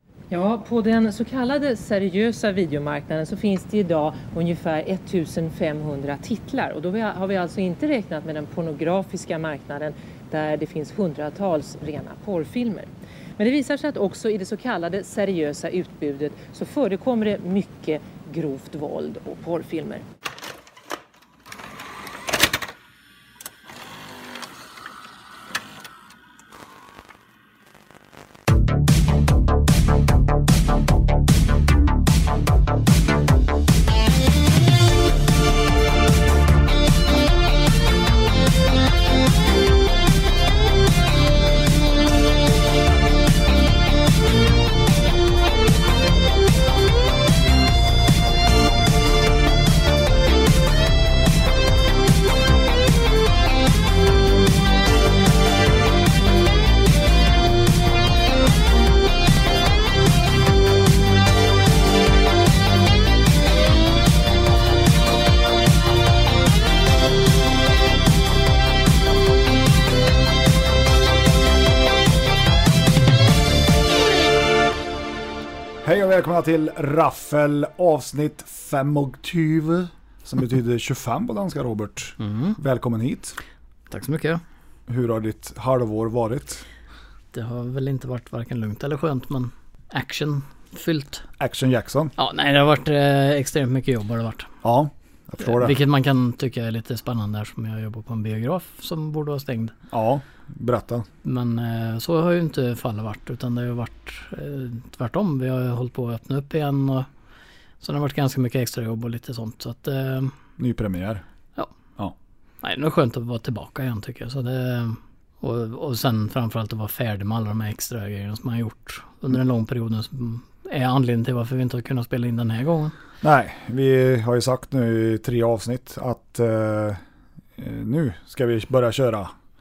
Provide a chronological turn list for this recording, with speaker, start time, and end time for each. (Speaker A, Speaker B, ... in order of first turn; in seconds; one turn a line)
Speaker A: 0.3-20.0
Speaker B: 75.8-83.4
Speaker C: 82.2-82.6
Speaker C: 83.9-84.4
Speaker B: 84.9-86.6
Speaker C: 87.3-91.2
Speaker B: 91.4-92.1
Speaker C: 92.2-94.5
Speaker B: 94.6-95.8
Speaker C: 95.4-99.7
Speaker B: 99.9-101.1
Speaker C: 101.2-107.1
Speaker C: 107.8-110.3
Speaker B: 110.6-111.2
Speaker C: 112.6-122.9
Speaker B: 123.2-127.0
Speaker B: 127.6-129.3